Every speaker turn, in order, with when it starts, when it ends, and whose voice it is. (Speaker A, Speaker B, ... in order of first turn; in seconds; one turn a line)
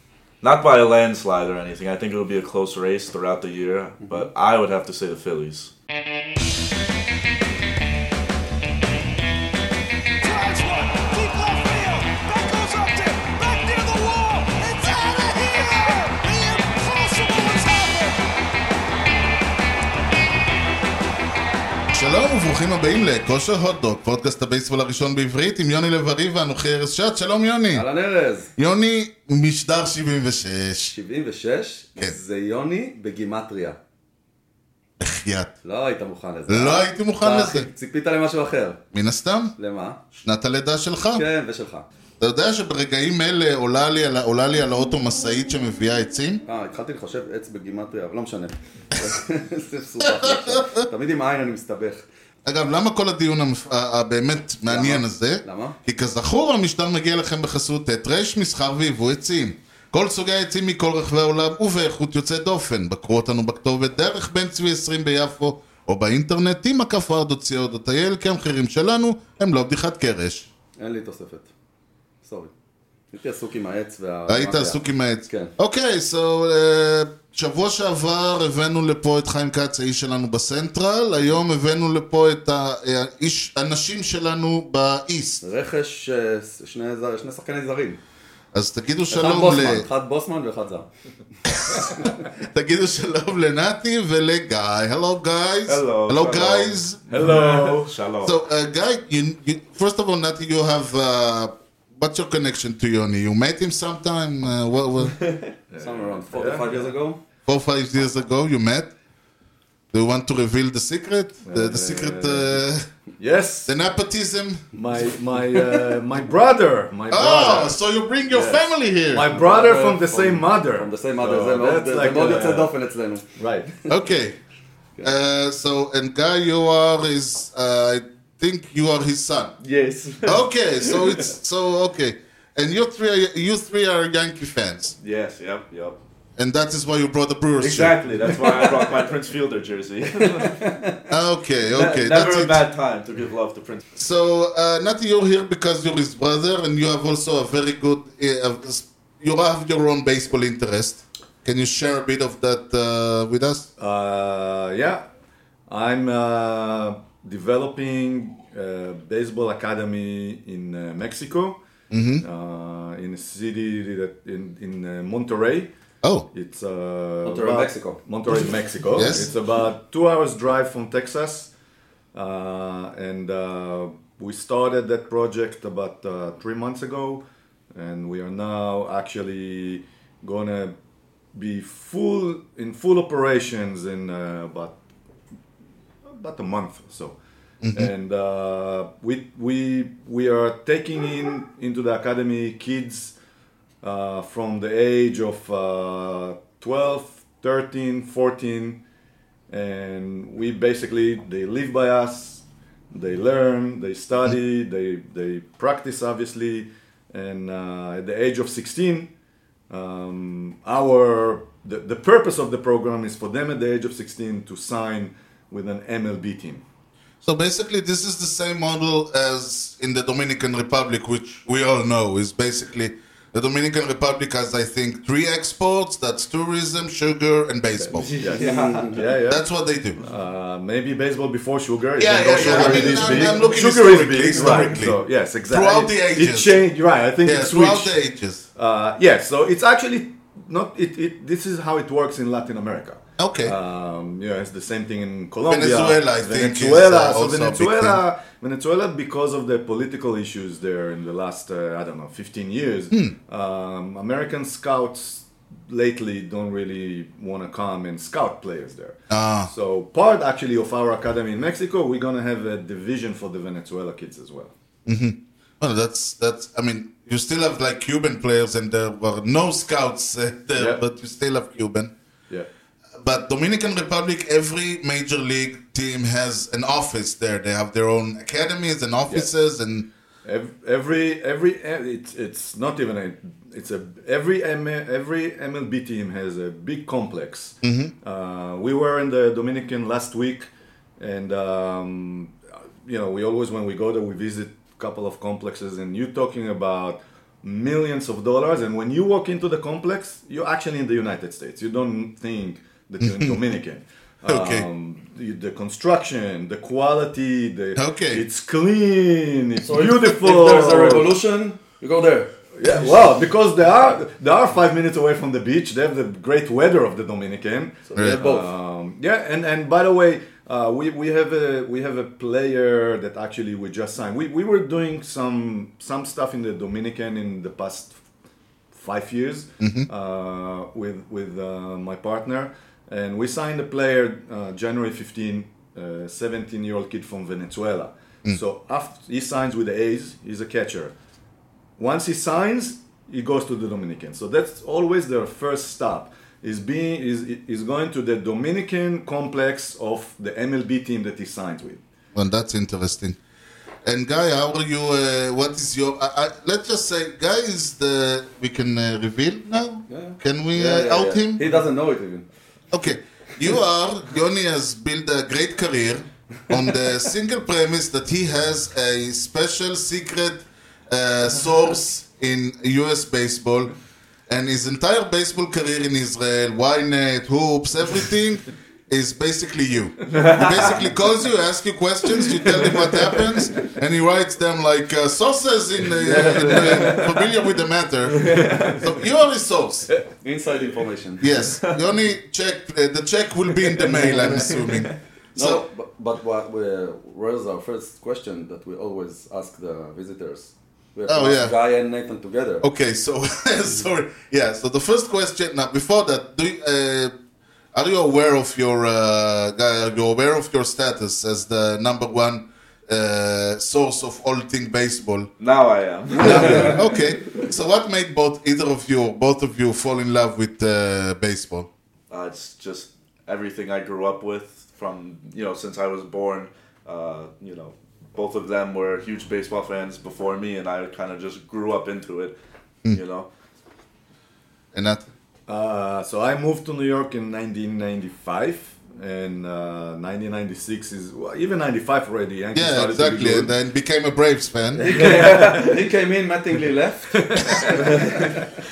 Speaker A: 0.4-5.7
Speaker B: 10.2-18.2
Speaker C: 21.9-27.9
Speaker D: 27.7-28.5
Speaker C: 28.6-30.9
Speaker D: 30.9-33.8
Speaker C: 35.0-35.5
Speaker D: 35.6-38.8
Speaker C: 36.5-37.7
Speaker C: 38.9-39.5
Speaker D: 39.6-40.0
Speaker C: 40.2-41.2
Speaker D: 41.1-41.9
Speaker C: 42.2-46.4
Speaker D: 46.5-52.0
Speaker C: 50.0-50.8
Speaker C: 52.5-70.5
Speaker D: 54.7-55.8
Speaker D: 70.8-71.5
Speaker D: 72.2-72.5
Speaker D: 73.1-75.5
Speaker C: 74.3-85.4
Speaker D: 85.4-88.0
Speaker C: 88.5-89.9
Speaker D: 89.1-90.9
Speaker C: 91.5-97.0
Speaker D: 91.8-92.1
Speaker A: 95.7-98.4
Speaker E: 97.1-97.9
Speaker C: 98.2-105.2
Speaker A: 105.2-105.5
Speaker E: 105.7-106.9
Speaker D: 105.8-107.2
Speaker C: 107.5-108.9
Speaker C: 109.9-112.8
Speaker E: 111.4-112.5
Speaker E: 113.2-113.7
Speaker C: 113.6-114.7
Speaker E: 114.7-117.8
Speaker C: 117.1-119.3
Speaker E: 118.3-122.7
Speaker D: 119.3-123.2
Speaker E: 123.4-123.7
Speaker C: 123.9-124.4
Speaker C: 125.0-129.5
Speaker A: 129.6-131.3
Speaker C: 130.2-134.9
Speaker A: 135.0-136.0
Speaker C: 136.4-137.9
Speaker A: 137.6-140.6
Speaker D: 140.5-141.0
Speaker C: 141.1-142.6
Speaker A: 141.7-143.8
Speaker C: 143.9-153.7
Speaker E: 153.8-155.0
Speaker E: 155.7-161.6
Speaker C: 161.9-162.2
Speaker E: 162.2-165.7
Speaker E: 166.3-171.5
Speaker D: 167.2-168.0
Speaker C: 168.9-169.3
Speaker E: 172.1-177.2
Speaker E: 177.7-180.7
Speaker E: 181.3-184.7
Speaker E: 186.0-187.2
Speaker C: 187.6-187.9
Speaker E: 187.7-193.1
Speaker E: 193.8-198.8
Speaker E: 199.5-209.1
Speaker E: 209.7-216.6
Speaker C: 217.2-228.1
Speaker E: 227.9-229.4
Speaker A: 228.0-229.0
Speaker D: 228.4-229.0
Speaker C: 229.2-230.0
Speaker E: 230.0-237.9
Speaker C: 232.0-236.6
Speaker D: 232.3-233.4
Speaker C: 237.2-238.4
Speaker E: 238.6-264.5
Speaker C: 243.2-243.6
Speaker C: 245.5-248.0
Speaker C: 259.1-259.5
Speaker C: 264.9-271.9
Speaker E: 270.6-270.8
Speaker C: 273.0-279.9
Speaker E: 280.2-311.2
Speaker C: 287.6-287.9
Speaker C: 303.0-303.4
Speaker C: 304.2-304.7
Speaker C: 307.8-308.2
Speaker D: 309.6-313.1
Speaker E: 312.5-328.0
Speaker D: 317.9-318.4
Speaker C: 317.9-318.2
Speaker E: 328.7-340.9
Speaker C: 329.6-329.9
Speaker E: 341.8-351.8
Speaker C: 352.1-353.2
Speaker C: 353.8-361.4
Speaker D: 359.9-362.2
Speaker C: 362.7-373.7
Speaker C: 374.3-389.9
Speaker A: 380.1-380.8
Speaker D: 386.0-387.2
Speaker A: 388.3-388.8
Speaker D: 390.2-391.3
Speaker C: 391.2-395.6
Speaker D: 393.8-394.5
Speaker D: 395.4-402.6
Speaker C: 401.1-401.5
Speaker C: 402.6-407.1
Speaker C: 407.7-415.3
Speaker A: 415.4-417.0
Speaker C: 416.2-421.7
Speaker A: 422.1-432.3
Speaker A: 432.9-433.3
Speaker C: 434.7-435.0
Speaker E: 435.5-443.5
Speaker C: 442.5-445.1
Speaker D: 444.8-448.4
Speaker E: 444.9-445.7
Speaker E: 447.3-448.0